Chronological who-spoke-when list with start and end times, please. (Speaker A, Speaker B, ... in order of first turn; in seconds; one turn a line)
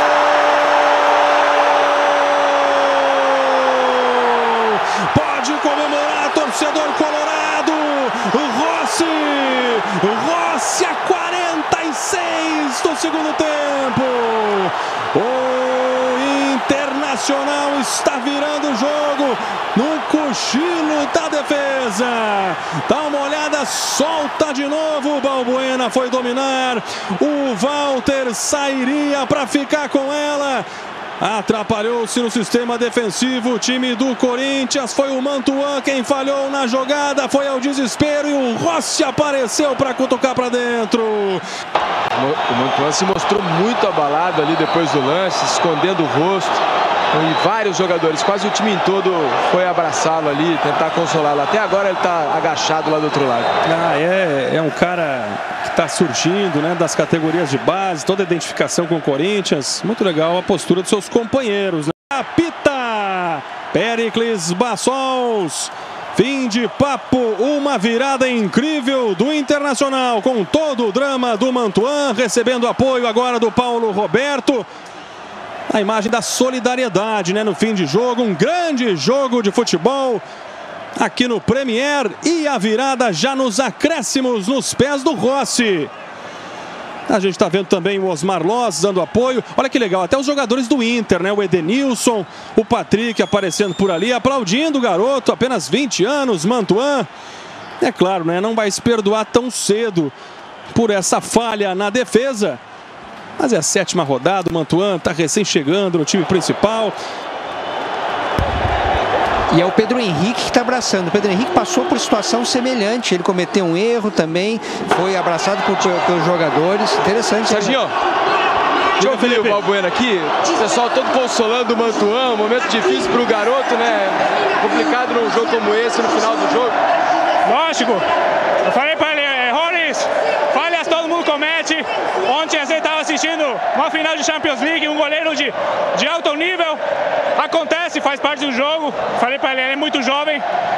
Speaker A: 2.1-30.7
Speaker A: 31.2-41.4
Speaker B: 42.1-46.6
Speaker B: 47.1-53.5
Speaker A: 53.6-74.7
Speaker A: 75.7-80.2
Speaker A: 81.0-85.9
Speaker A: 87.1-97.1
Speaker A: 97.8-100.1
Speaker A: 100.7-102.6
Speaker A: 103.4-107.0
Speaker C: 109.5-117.8
Speaker B: 117.5-117.9
Speaker B: 119.0-126.7
Speaker A: 119.0-119.6
Speaker D: 127.5-128.0
Speaker D: 128.6-136.8
Speaker D: 137.4-140.4